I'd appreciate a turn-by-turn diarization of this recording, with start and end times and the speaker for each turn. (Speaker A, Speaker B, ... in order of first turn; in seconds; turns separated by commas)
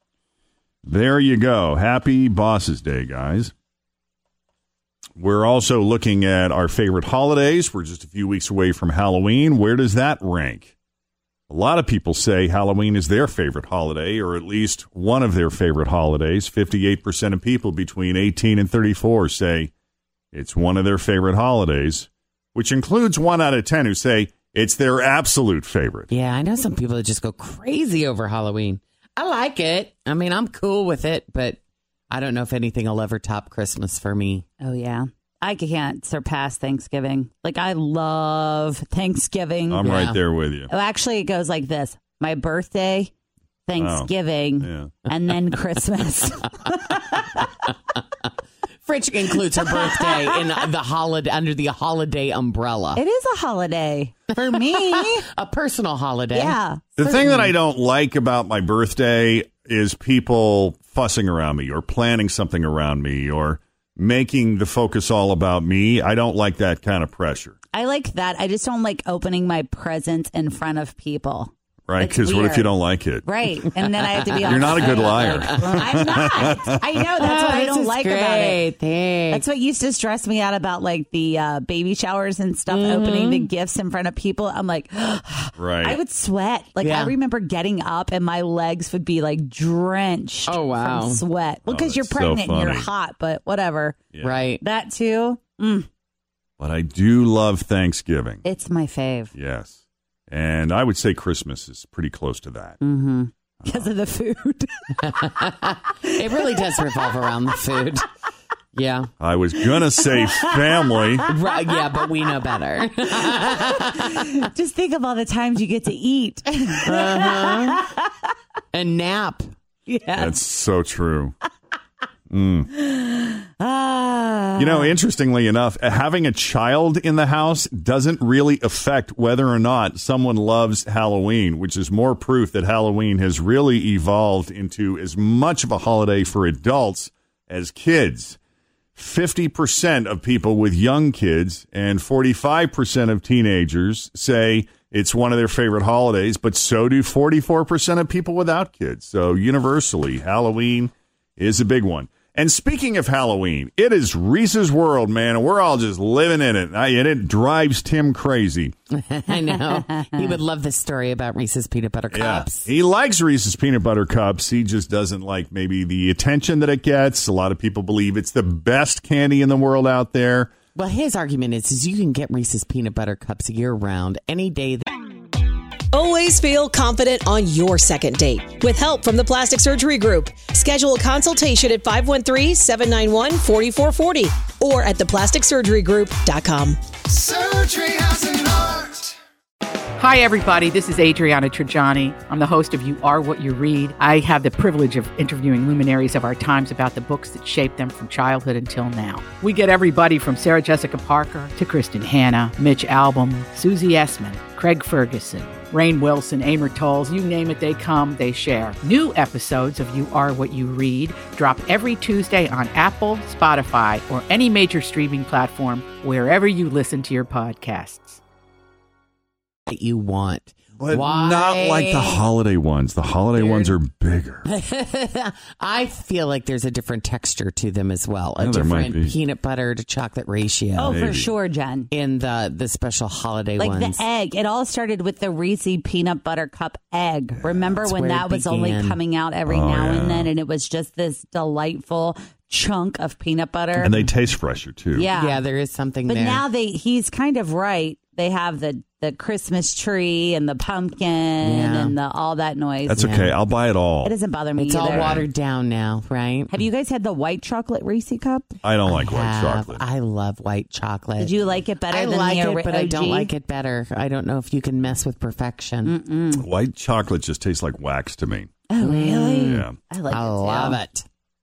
Speaker A: 0.8-3.5, Speaker A: 5.2-10.7, Speaker A: 11.5-19.7, Speaker A: 20.3-26.1, Speaker B: 26.1-31.6, Speaker B: 32.1-34.5, Speaker C: 34.6-39.9, Speaker A: 39.7-40.7, Speaker B: 39.8-40.2, Speaker C: 40.7-43.1, Speaker C: 43.6-47.4, Speaker A: 43.8-44.9, Speaker B: 48.8-53.0, Speaker C: 52.9-55.2, Speaker B: 54.3-57.5, Speaker C: 56.3-57.5, Speaker A: 57.0-67.5, Speaker C: 67.7-78.6, Speaker A: 71.9-73.2, Speaker B: 74.4-76.0, Speaker A: 74.4-76.9, Speaker B: 77.2-79.4, Speaker C: 79.3-94.0, Speaker B: 82.7-83.5, Speaker A: 85.6-86.0, Speaker B: 86.8-87.1, Speaker B: 90.5-91.2, Speaker A: 91.7-92.9, Speaker B: 94.2-94.6, Speaker C: 94.6-95.9, Speaker A: 96.6-98.4, Speaker C: 98.4-99.3, Speaker A: 99.3-102.8, Speaker C: 102.8-105.3, Speaker A: 103.6-103.9, Speaker B: 105.1-108.0, Speaker C: 106.0-107.0, Speaker B: 108.7-109.1, Speaker A: 109.2-111.3, Speaker C: 110.0-111.2, Speaker B: 111.3-114.0, Speaker C: 113.4-118.0, Speaker B: 116.8-117.8, Speaker B: 118.7-119.5, Speaker C: 119.9-120.4, Speaker A: 120.1-121.3, Speaker A: 122.3-122.7, Speaker C: 122.8-125.0, Speaker A: 124.6-138.4, Speaker A: 138.9-158.7, Speaker B: 159.0-162.7, Speaker A: 162.1-170.5, Speaker B: 170.7-174.9, Speaker D: 175.9-186.7, Speaker A: 187.1-189.1, Speaker E: 190.0-218.2, Speaker B: 219.7-222.2, Speaker A: 220.8-224.5, Speaker B: 223.3-223.7, Speaker B: 224.5-231.0, Speaker A: 228.4-229.1, Speaker C: 230.8-231.9, Speaker A: 230.8-231.3, Speaker B: 231.9-234.0, Speaker C: 233.6-244.1, Speaker A: 237.4-237.8, Speaker B: 237.9-239.0, Speaker A: 239.5-240.3, Speaker A: 243.8-245.1, Speaker C: 244.9-245.4, Speaker B: 245.1-246.4, Speaker C: 246.1-253.1, Speaker B: 251.4-252.0, Speaker A: 252.9-254.2, Speaker B: 253.0-253.3, Speaker C: 254.0-255.2, Speaker B: 254.6-256.5, Speaker A: 254.8-255.3, Speaker C: 256.5-258.5, Speaker A: 258.6-259.8, Speaker B: 258.9-265.9, Speaker C: 261.2-263.3, Speaker C: 265.8-266.5, Speaker A: 266.3-268.5, Speaker C: 268.7-270.8, Speaker B: 268.8-271.1, Speaker A: 269.4-269.8